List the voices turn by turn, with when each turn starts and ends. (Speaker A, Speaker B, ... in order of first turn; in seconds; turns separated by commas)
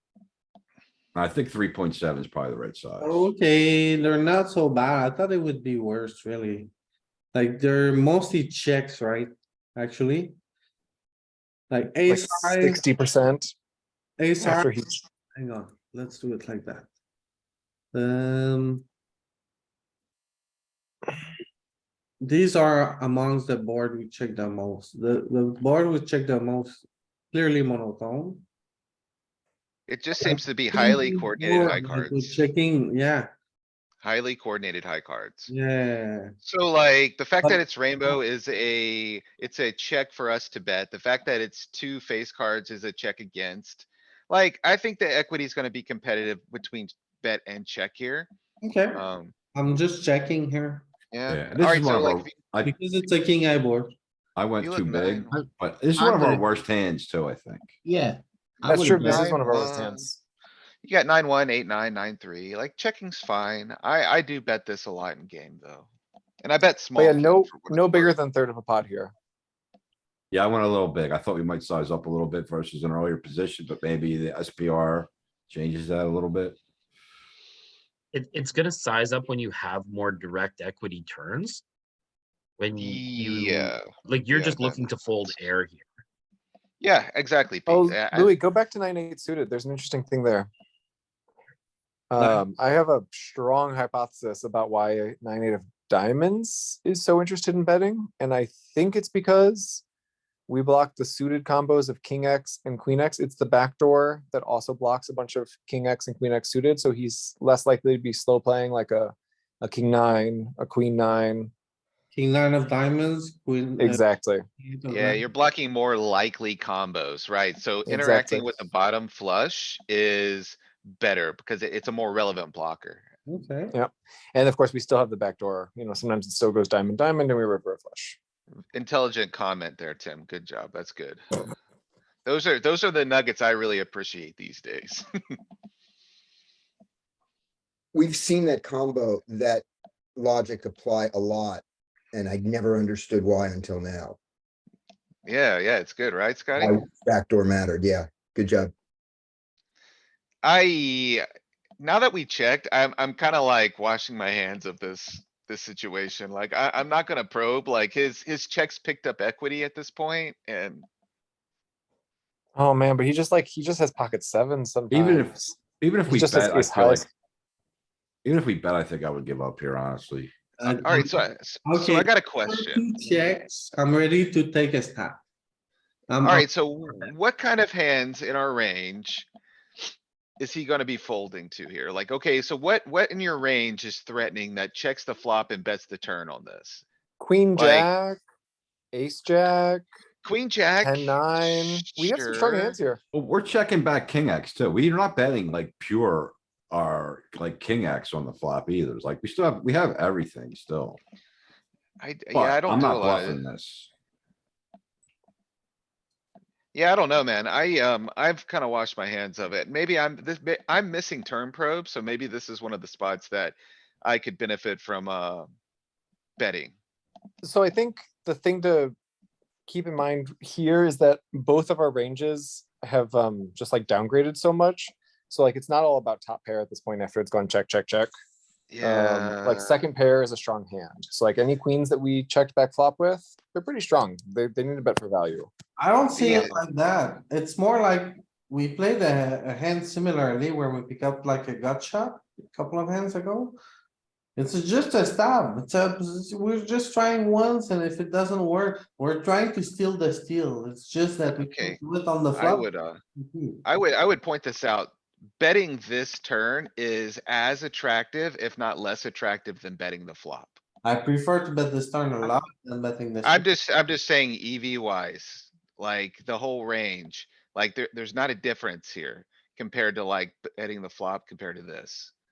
Speaker A: 1.1-3.3, Speaker B: 3.0-6.7, Speaker B: 7.3-10.4, Speaker B: 11.7-12.8, Speaker C: 12.1-13.5, Speaker B: 14.2-14.7, Speaker C: 14.4-15.0, Speaker B: 15.3-16.9, Speaker B: 17.9-18.9, Speaker B: 22.2-28.4, Speaker D: 29.9-32.5, Speaker B: 30.2-33.3, Speaker D: 34.0-35.5, Speaker B: 35.5-36.4, Speaker D: 36.4-48.3, Speaker B: 48.6-49.0, Speaker D: 48.9-49.3, Speaker B: 49.5-50.9, Speaker D: 51.1-52.4, Speaker A: 51.3-52.7, Speaker B: 52.6-53.9, Speaker A: 54.4-57.8, Speaker D: 54.6-55.4, Speaker E: 55.3-56.4, Speaker E: 57.9-59.4, Speaker C: 58.6-60.2, Speaker D: 59.1-60.1, Speaker D: 60.8-65.9, Speaker D: 66.4-68.2, Speaker C: 67.0-69.1, Speaker A: 70.3-76.6, Speaker F: 78.1-81.6, Speaker F: 82.6-85.9, Speaker D: 82.8-85.0, Speaker D: 86.8-88.3, Speaker C: 87.7-90.5, Speaker C: 92.1-99.8, Speaker C: 100.5-111.5, Speaker B: 112.1-114.0, Speaker C: 113.8-114.4, Speaker B: 114.6-115.2, Speaker D: 114.9-123.1, Speaker C: 117.9-118.7, Speaker B: 123.3-123.7, Speaker C: 123.7-128.2, Speaker D: 128.7-131.3, Speaker D: 132.2-135.4, Speaker G: 138.0-139.6, Speaker G: 140.2-140.5, Speaker G: 141.1-141.6, Speaker G: 142.2-142.7, Speaker G: 143.3-143.6, Speaker D: 145.3-146.8, Speaker G: 146.6-146.9, Speaker G: 148.0-148.6, Speaker D: 150.4-151.2, Speaker D: 151.8-160.9, Speaker C: 162.6-165.5, Speaker A: 164.9-167.1, Speaker C: 166.1-167.1, Speaker A: 168.2-170.3, Speaker B: 170.6-175.2, Speaker D: 170.7-172.8, Speaker B: 176.1-176.5, Speaker D: 176.2-179.3, Speaker D: 180.4-186.8, Speaker C: 187.2-188.2, Speaker D: 187.6-187.9, Speaker C: 188.9-189.9, Speaker D: 190.2-192.8, Speaker C: 190.8-193.0, Speaker A: 193.1-201.0, Speaker D: 202.0-203.4, Speaker A: 202.3-203.9, Speaker D: 206.7-215.5, Speaker D: 216.4-216.8, Speaker C: 217.4-218.9, Speaker C: 219.7-228.1, Speaker D: 228.7-229.8, Speaker C: 228.8-235.5, Speaker B: 235.8-243.6, Speaker D: 236.2-236.5, Speaker B: 244.4-252.7, Speaker D: 251.4-251.8, Speaker D: 252.3-253.0, Speaker B: 253.2-253.6, Speaker D: 253.7-260.6, Speaker B: 260.8-263.5, Speaker D: 263.2-272.1